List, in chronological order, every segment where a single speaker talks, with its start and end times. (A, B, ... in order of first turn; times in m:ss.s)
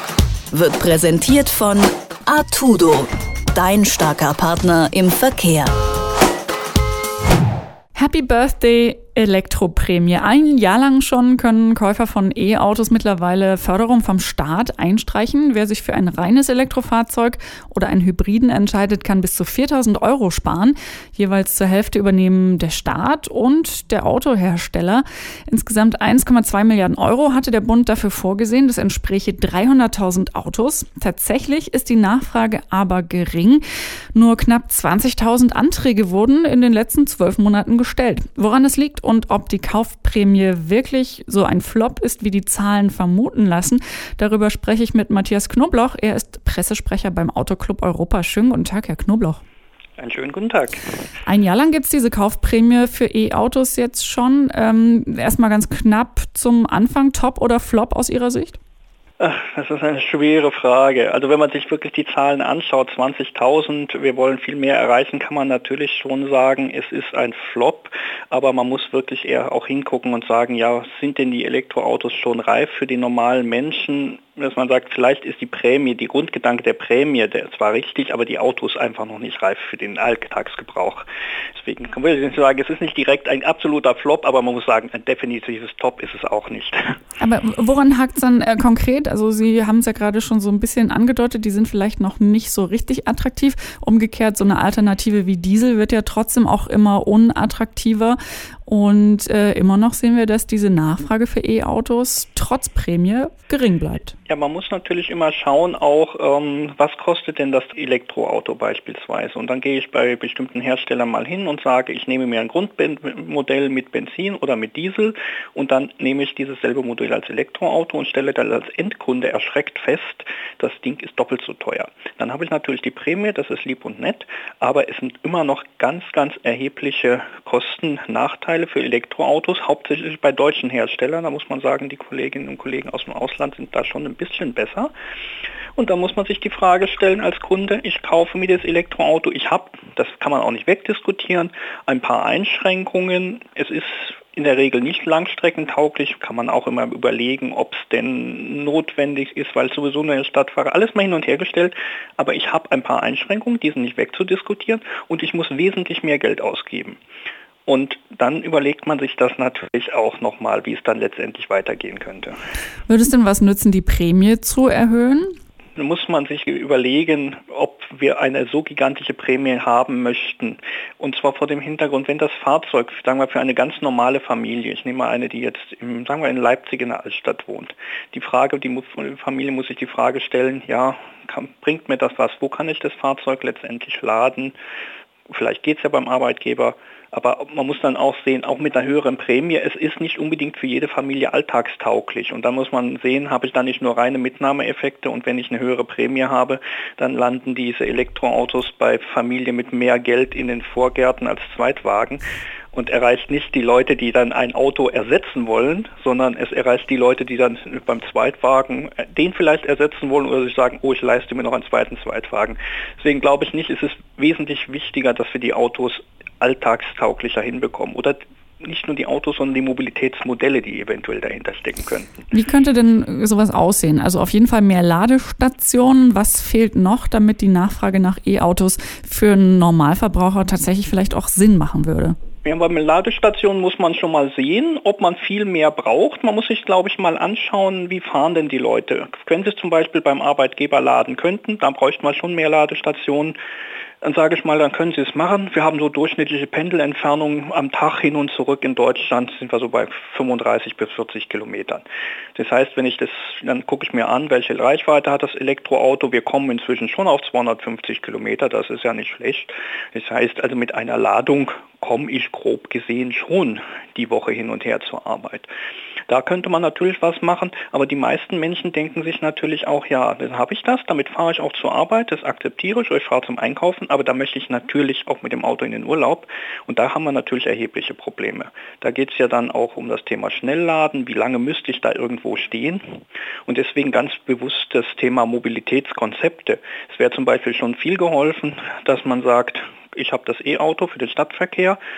0:00.5-0:05.7 A
0:07.9-0:33.6 B
0:34.1-0:49.4 B
0:50.0-0:50.8 C
0:51.2-0:58.6 B
0:59.2-1:27.0 C
1:27.2-1:44.1 B
1:44.3-2:14.9 C
2:15.8-2:37.0 C
2:37.6-2:42.4 C
2:42.9-2:45.4 B
2:45.8-3:04.6 C
3:05.3-3:22.2 C
3:22.7-3:42.2 C
3:42.3-3:52.2 B
3:52.4-4:03.4 C
4:04.0-4:11.8 C
4:12.3-4:25.5 C
4:26.1-4:51.8 C